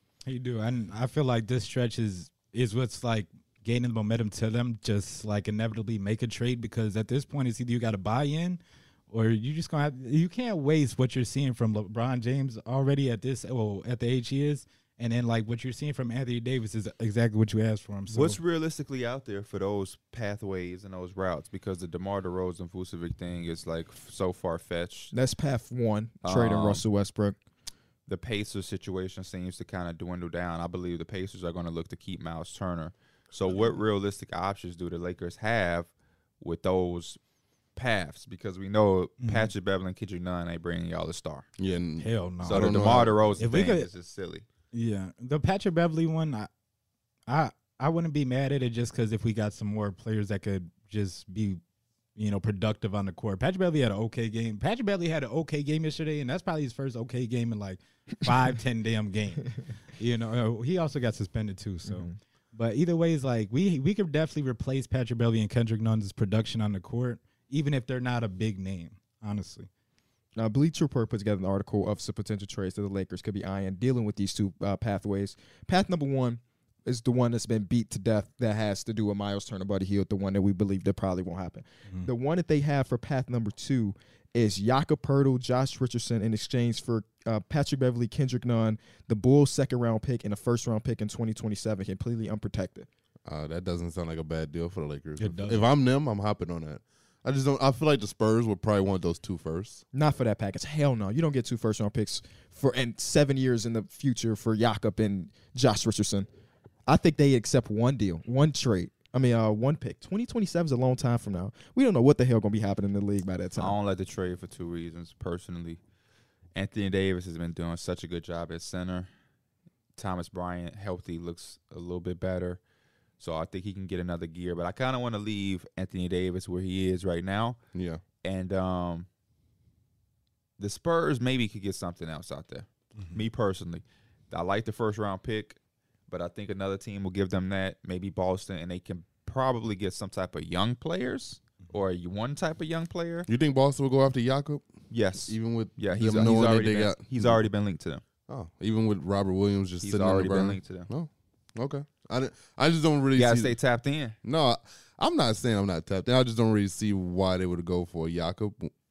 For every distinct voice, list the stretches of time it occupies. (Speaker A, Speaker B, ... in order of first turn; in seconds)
Speaker A: 0.2-18.4, 39.2-39.5, 42.0-42.8, 43.4-43.9, 44.7-46.5, 47.3-51.6, 52.2-69.7, 95.2-95.6
Speaker B: 18.1-25.1, 26.2-26.8, 28.1-35.9, 36.4-37.2, 37.8-41.5, 42.4-44.5, 113.6-115.8, 116.5-119.1, 120.0-122.6, 123.2-127.6, 128.2-129.1, 130.6-143.3, 144.9-148.0, 149.8-150.9, 153.2-154.2
Speaker C: 25.1-27.4, 61.9-62.2, 70.4-92.9, 99.9-106.3, 106.9-113.8
Speaker D: 41.6-43.4, 93.3-99.8, 127.7-128.0, 143.3-144.7, 145.3-147.4, 148.3-153.6, 154.2-158.7